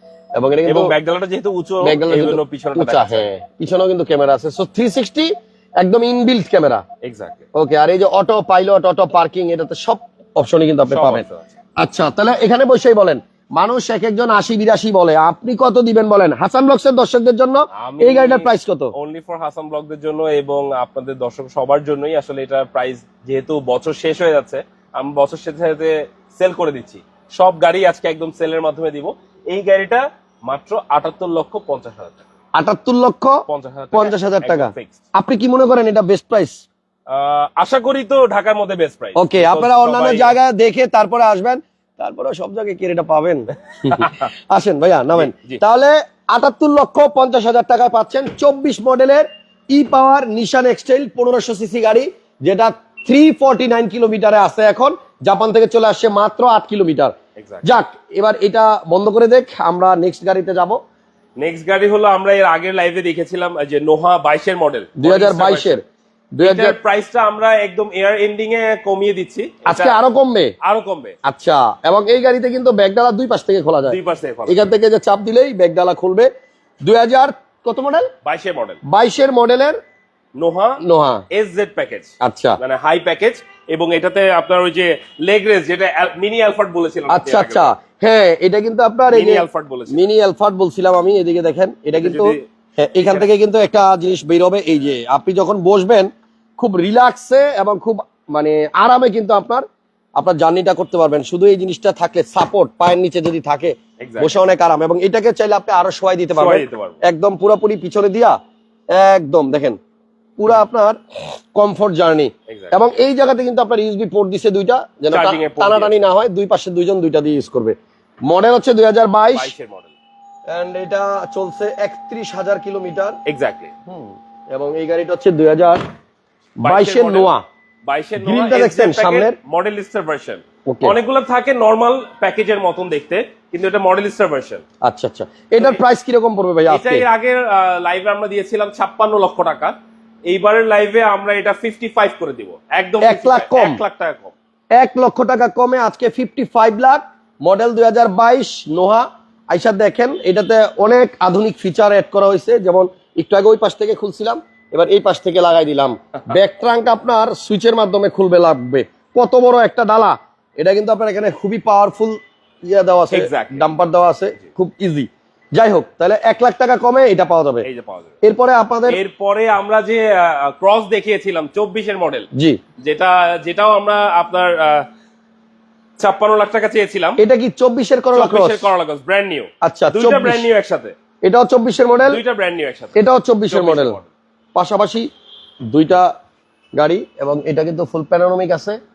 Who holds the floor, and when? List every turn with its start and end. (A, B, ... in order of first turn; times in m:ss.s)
0:00.3-0:00.9 A
0:00.6-0:03.3 B
0:01.8-0:06.8 A
0:07.0-0:07.4 B
0:07.5-0:11.2 A
0:10.9-0:11.5 B
0:11.8-0:18.9 A
0:17.8-0:32.2 B
0:32.5-0:33.4 A
0:33.5-0:35.0 B
0:33.9-0:36.6 A
0:37.1-0:40.3 B
0:39.2-1:00.8 A
0:43.8-0:44.3 B
0:45.1-0:45.6 B
0:57.4-0:57.6 B
1:01.4-1:05.8 B
1:05.0-1:05.8 A
1:06.4-1:06.8 A
1:06.4-1:10.0 B
1:09.6-1:10.5 A
1:10.6-1:11.1 B
1:11.2-1:16.3 A
1:13.9-1:14.6 B
1:16.8-1:18.1 A
1:18.2-1:18.8 B
1:18.8-1:19.8 A
1:20.4-1:27.7 B
1:20.8-1:21.2 A
1:22.2-1:22.6 A
1:27.1-1:39.6 A
1:29.1-1:30.0 B
1:31.9-1:32.4 B
1:33.0-1:33.3 B
1:40.2-1:48.4 A
1:44.0-1:44.4 B
1:46.3-1:47.0 B
1:48.9-1:49.8 A
1:50.4-1:51.0 A
1:51.5-1:59.5 A
1:52.5-1:52.7 B
1:55.1-1:55.9 B
1:59.3-1:59.9 B
2:00.5-2:03.2 A
2:03.2-2:03.7 B
2:03.9-2:05.8 A
2:06.6-2:07.4 A
2:06.6-2:07.3 B
2:07.9-2:14.6 B
2:08.2-2:09.3 A
2:10.7-2:11.0 A
2:14.8-2:17.0 A
2:15.6-2:15.8 B
2:16.7-2:19.7 B
2:20.3-2:24.3 B
2:23.0-2:23.8 A
2:24.7-2:47.6 A
2:43.1-2:43.7 B
2:47.6-2:48.1 B
2:48.2-2:49.0 A
2:48.9-2:52.3 B
2:52.8-2:54.8 B
2:56.0-2:57.2 B
2:57.2-2:58.7 A
2:58.1-3:00.9 B
2:59.6-3:00.5 A
3:01.2-3:02.2 A
3:02.0-3:03.0 B
3:03.0-3:04.0 A
3:03.5-3:04.1 B
3:04.5-3:05.1 A
3:05.7-3:06.1 A
3:06.8-3:08.8 A